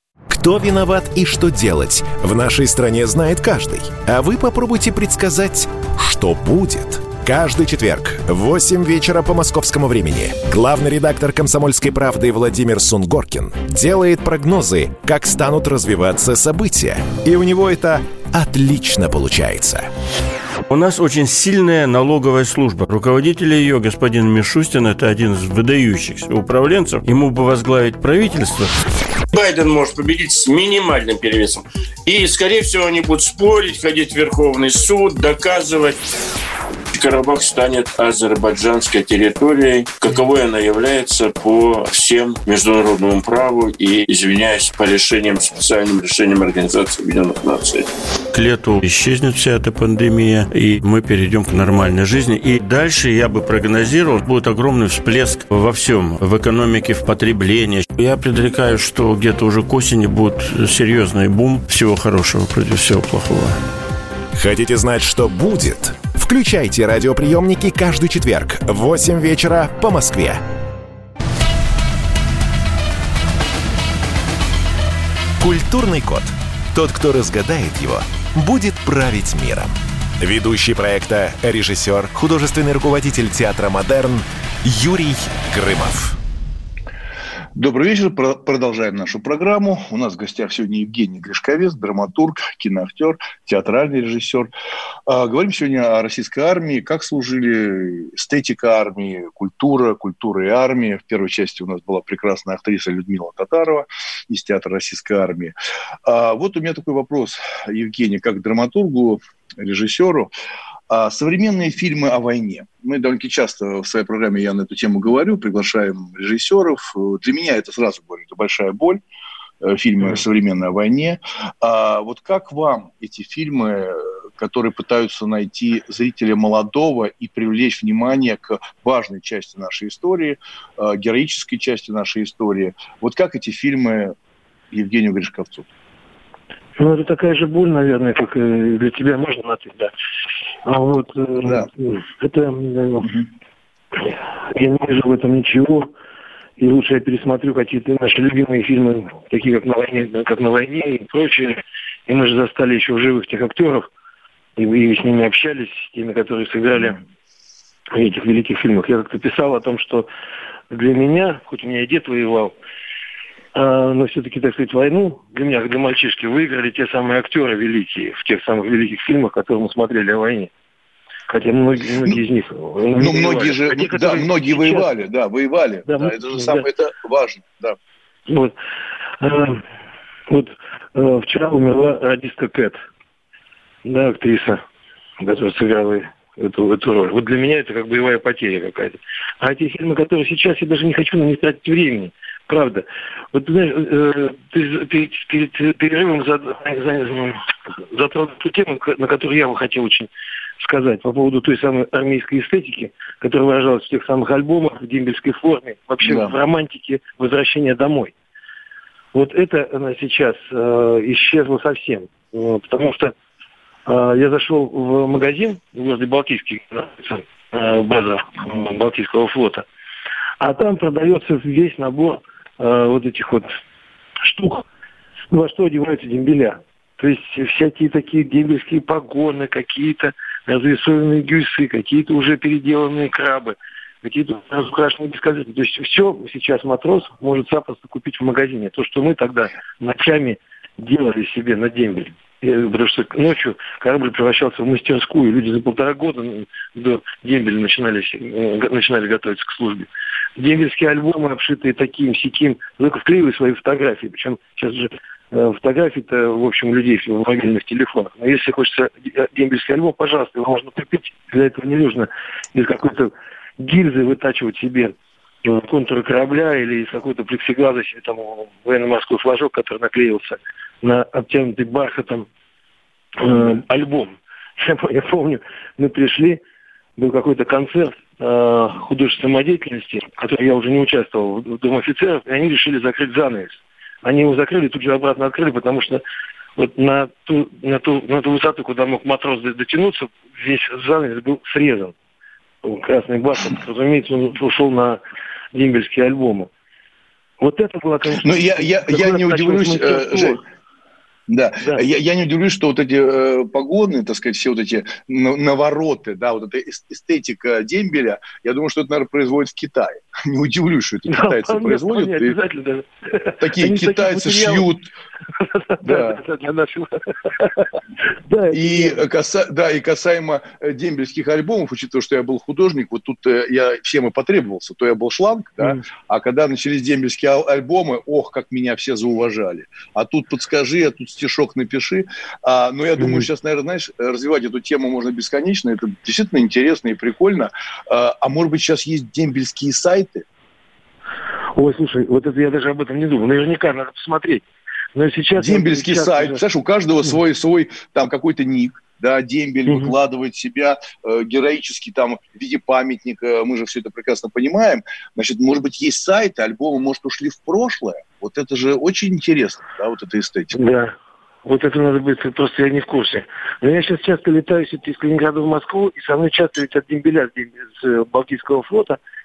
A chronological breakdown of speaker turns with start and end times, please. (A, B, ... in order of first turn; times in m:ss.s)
0:00.3-0:19.9 A
0:20.7-0:28.8 B
0:29.3-0:36.0 C
0:36.9-0:47.9 C
0:48.3-1:03.6 B
1:04.4-1:10.4 A
1:15.4-1:26.2 A
1:27.6-1:34.5 D
1:35.1-1:45.5 D
1:46.0-1:50.3 D
1:50.9-1:59.0 D
1:59.6-2:14.2 D
2:14.7-2:15.7 D
2:16.8-2:19.9 E
2:20.6-2:23.1 E
2:24.0-2:25.9 E
2:26.6-2:33.9 E
2:34.6-2:37.0 E
2:37.9-2:40.1 E
2:40.7-2:42.5 E
2:43.5-2:50.5 E
2:51.3-2:54.9 E
2:53.0-2:57.8 D
2:55.9-2:56.7 E
2:58.3-2:58.6 E
2:59.2-2:59.6 E
3:00.3-3:02.8 E
3:03.8-3:04.6 E
3:05.2-3:28.1 E
3:26.0-3:26.4 D
3:29.1-3:33.2 E
3:33.9-3:39.7 E
3:40.4-3:43.5 E
3:44.2-3:44.6 E
3:45.3-4:32.3 E
4:33.2-4:36.4 E
4:37.0-4:46.0 E
4:46.6-4:51.9 E
4:52.6-4:55.0 E
4:55.5-4:56.5 E
4:57.4-5:00.4 E
4:58.2-5:00.4 D
5:01.3-5:12.4 D
5:11.1-5:14.7 E
5:13.4-5:14.9 D
5:15.3-5:17.7 E
5:15.8-5:16.2 D
5:18.3-5:19.0 E
5:18.5-5:40.3 D
5:33.0-5:33.3 E
5:41.5-5:46.4 E
5:45.4-6:00.6 D
5:49.7-5:50.0 E
6:00.5-6:09.0 E